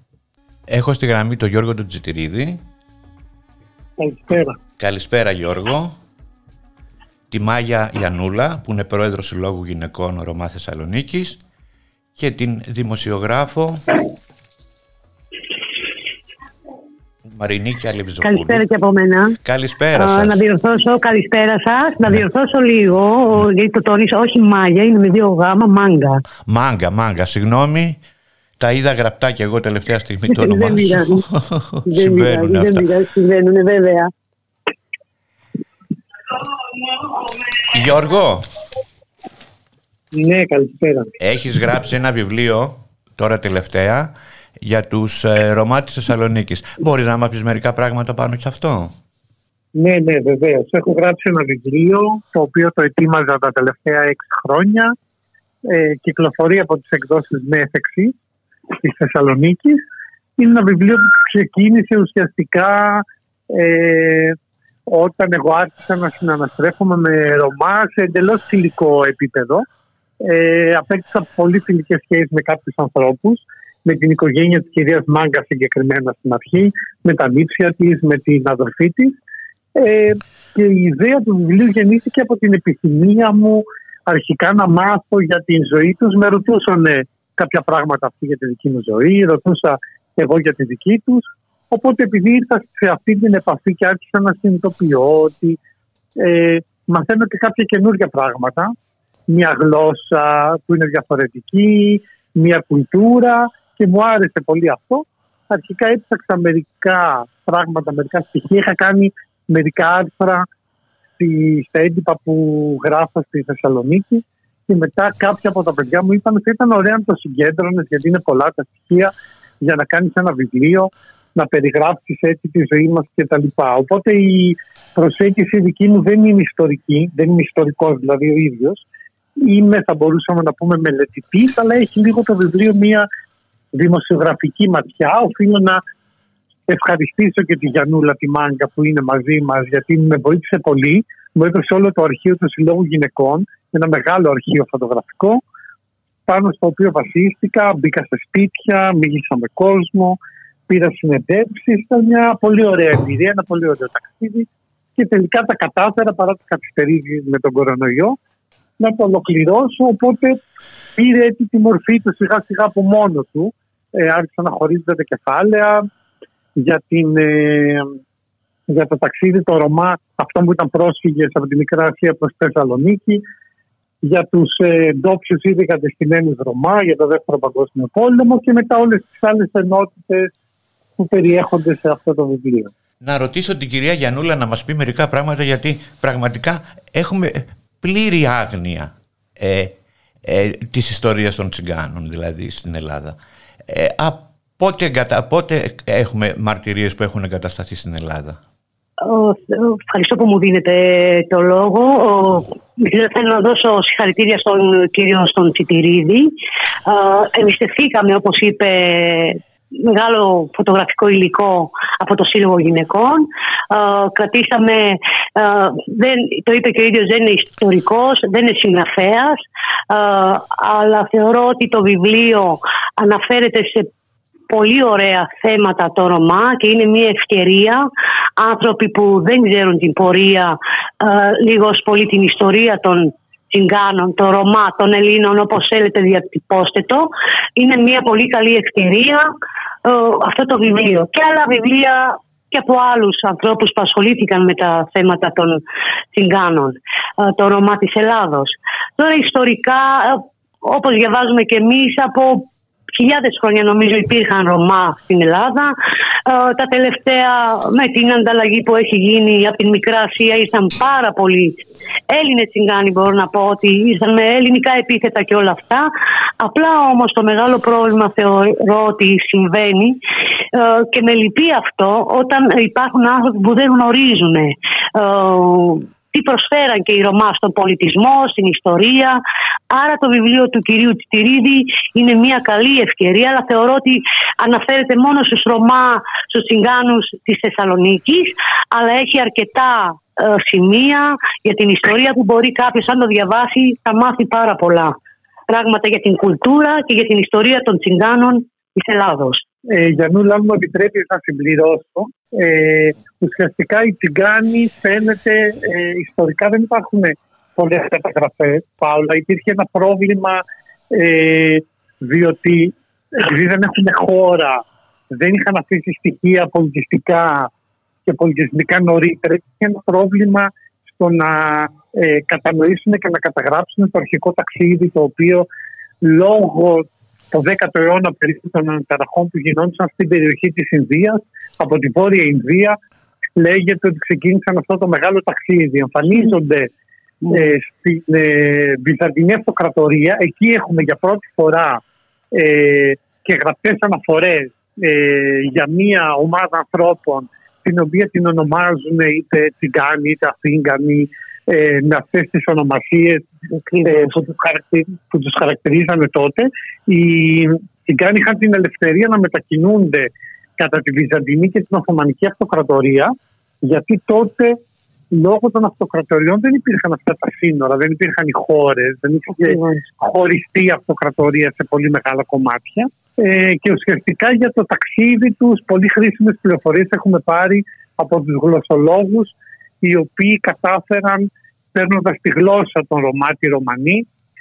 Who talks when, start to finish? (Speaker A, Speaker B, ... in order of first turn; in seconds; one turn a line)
Speaker A: 0.7-2.6
Speaker B: 4.0-4.6
Speaker A: 4.8-6.0
Speaker A: 7.3-11.4
Speaker A: 12.2-14.0
Speaker A: 17.3-18.6
Speaker C: 18.2-19.4
Speaker A: 19.4-20.4
Speaker C: 20.0-26.2
Speaker A: 26.5-28.0
Speaker A: 28.6-32.9
Speaker C: 30.3-31.2
Speaker C: 31.9-34.1
Speaker A: 37.7-38.5
Speaker B: 40.1-41.1
Speaker A: 41.2-48.9
Speaker B: 49.8-55.0
Speaker B: 55.6-58.1
Speaker B: 58.8-59.8
Speaker B: 60.4-69.7
Speaker B: 70.2-79.2
Speaker B: 79.8-95.6
Speaker B: 96.2-98.7
Speaker B: 99.3-110.5
Speaker B: 111.2-128.8
Speaker B: 129.4-133.1
Speaker B: 133.7-135.8
Speaker B: 136.7-145.4
Speaker B: 146.3-158.2
Speaker B: 158.8-160.4
Speaker B: 161.0-165.9
Speaker B: 166.6-167.9
Speaker B: 168.7-173.2
Speaker B: 174.0-180.3
Speaker B: 181.0-182.7
Speaker A: 183.0-198.4
Speaker C: 199.0-206.3
Speaker C: 206.9-223.9
Speaker C: 224.5-239.3
Speaker C: 239.8-245.6
Speaker C: 246.1-270.0
Speaker C: 270.5-294.9
Speaker C: 295.5-299.4
Speaker B: 299.7-314.6
Speaker B: 315.1-317.5
Speaker B: 318.1-325.5
Speaker B: 326.0-332.8
Speaker B: 333.4-336.7
Speaker B: 337.3-341.8
Speaker B: 342.3-353.3
Speaker C: 353.5-354.1
Speaker B: 353.9-364.6
Speaker B: 365.1-384.1
Speaker C: 369.4-369.8